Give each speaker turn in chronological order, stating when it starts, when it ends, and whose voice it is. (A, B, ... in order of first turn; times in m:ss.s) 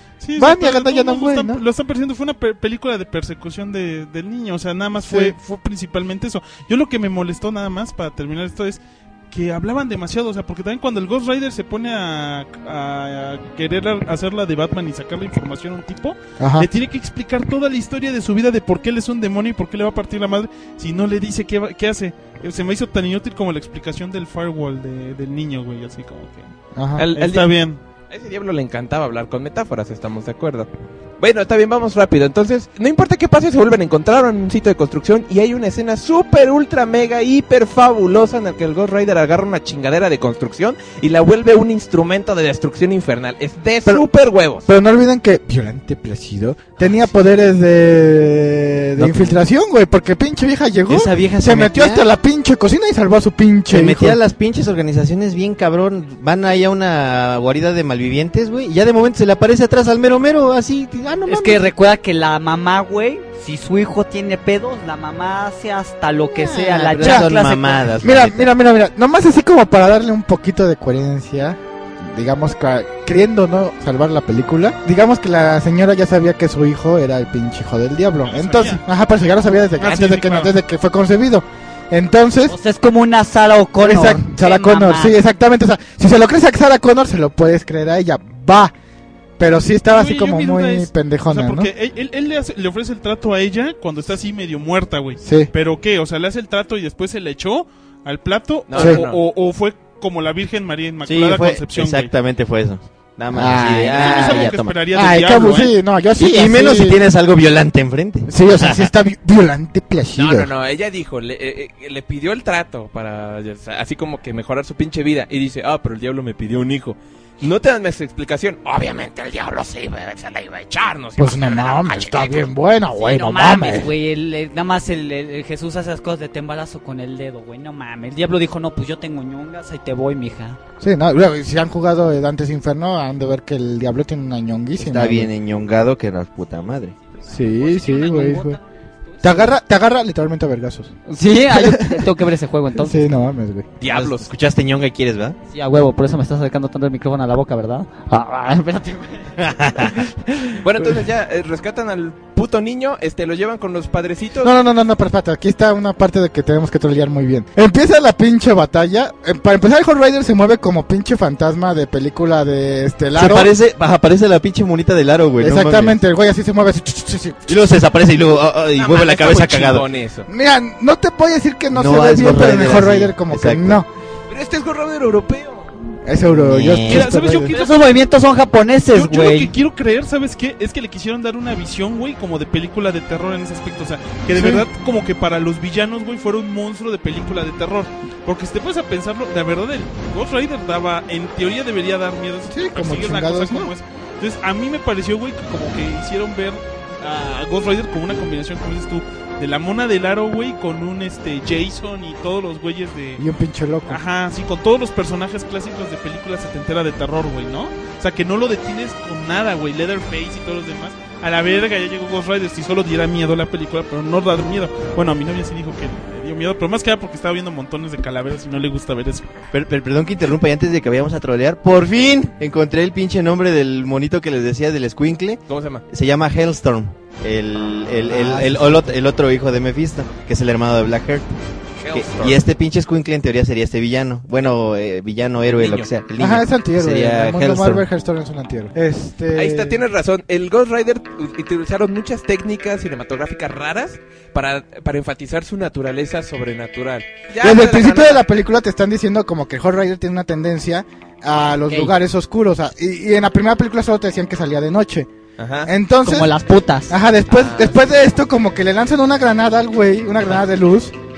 0:00.2-0:26.5 A
0:00.4-0:01.6 B
0:05.0-0:05.4 B
0:16.4-0:16.7 B
0:26.8-0:27.1 B
0:27.0-0:27.5 C
0:27.2-0:27.8 A
0:28.1-0:30.7 C
0:31.2-0:44.7 C
0:44.6-0:54.2 B
0:49.0-0:49.4 D
0:50.9-0:52.1 D
0:53.7-1:01.7 D
1:01.3-1:07.9 E
1:06.4-1:08.5 D
1:07.0-1:07.3 B
1:08.0-1:22.6 B
1:18.3-1:18.8 A
1:19.8-1:20.5 A
1:22.5-1:25.2 E
1:23.8-1:28.7 B
1:29.4-1:31.7 B
1:29.9-1:42.1 A
1:35.2-1:35.5 B
1:38.7-1:39.2 C
1:38.8-1:39.0 B
1:41.0-1:44.8 D
1:43.3-1:47.0 B
1:43.9-1:45.7 A
1:46.2-1:48.9 D
1:48.3-1:50.5 B
1:50.2-2:02.5 C
2:01.2-2:03.9 B
2:03.0-2:10.6 E
2:10.8-2:15.3 B
2:14.8-2:17.0 D
2:17.2-2:19.5 E
2:17.3-2:18.6 B
2:19.2-2:21.0 B
2:21.1-2:23.0 E
2:21.5-2:22.1 B
2:22.8-2:23.7 B
2:23.8-2:24.3 C
2:23.9-2:25.4 D
2:25.5-2:29.4 E
2:29.4-2:30.0 D
2:30.6-2:34.5 C
2:34.4-2:43.5 B
2:43.2-2:46.0 D
2:45.4-2:47.8 B
2:47.5-2:49.9 D
2:48.8-2:50.3 C
2:50.3-2:53.9 B
2:51.7-2:53.8 D
2:54.3-2:55.7 C
2:56.0-2:57.6 B
2:56.3-2:57.2 D
2:56.9-2:57.9 A
2:57.5-2:59.5 E
2:58.9-3:23.2 A
3:04.3-3:04.7 B
3:12.5-3:13.7 B
3:23.2-3:24.0 B
3:23.9-3:39.4 A
3:39.5-3:51.3 D
3:45.5-3:45.8 C
3:48.1-3:49.0 B
3:51.8-3:52.4 C
3:51.9-3:57.8 D
3:55.5-3:55.9 C
3:56.2-3:59.8 B
3:59.3-4:08.2 C
4:07.4-4:15.1 B
4:15.4-4:15.7 C
4:15.6-4:16.3 B
4:16.0-4:17.0 E
4:16.9-4:21.0 B